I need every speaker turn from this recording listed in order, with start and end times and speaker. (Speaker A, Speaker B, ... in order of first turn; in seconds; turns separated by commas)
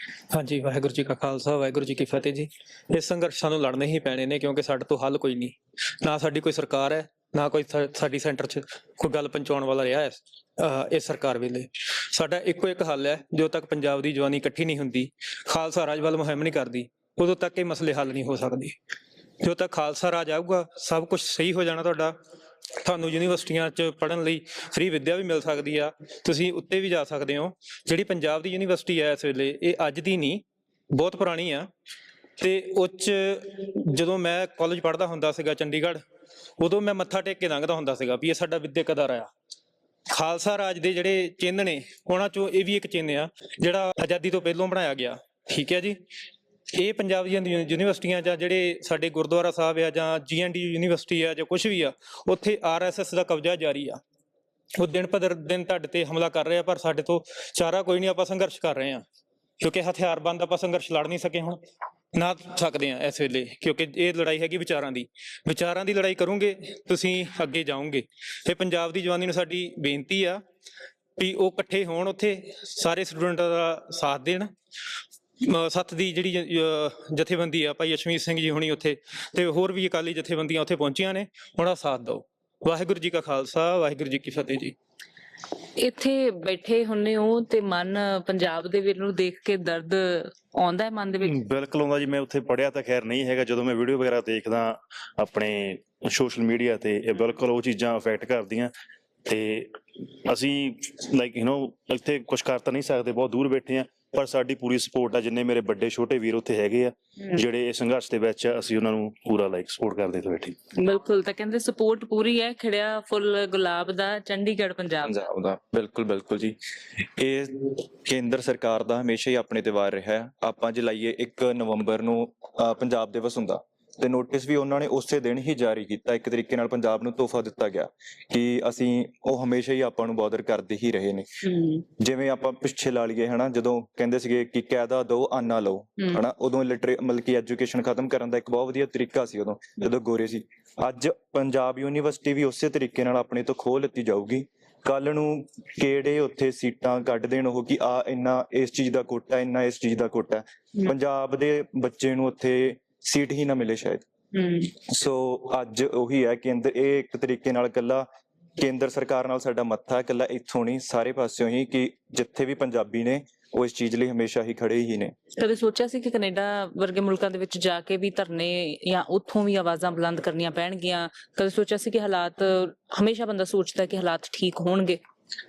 Speaker A: 0.3-18.8, Speaker A: 19.4-22.2, Speaker A: 22.8-31.7, Speaker A: 32.4-36.0, Speaker A: 36.6-39.3, Speaker A: 40.1-46.0, Speaker A: 46.7-54.0, Speaker A: 54.8-59.0, Speaker A: 59.6-61.6, Speaker A: 62.1-70.4, Speaker A: 71.2-74.5, Speaker A: 75.4-84.7, Speaker B: 85.8-91.3, Speaker C: 91.2-98.7, Speaker C: 99.2-110.5, Speaker B: 110.8-115.3, Speaker D: 115.0-131.3, Speaker B: 131.4-131.8, Speaker D: 132.0-154.0, Speaker B: 154.3-154.7, Speaker D: 154.8-158.1, Speaker D: 158.6-165.1, Speaker B: 165.4-175.0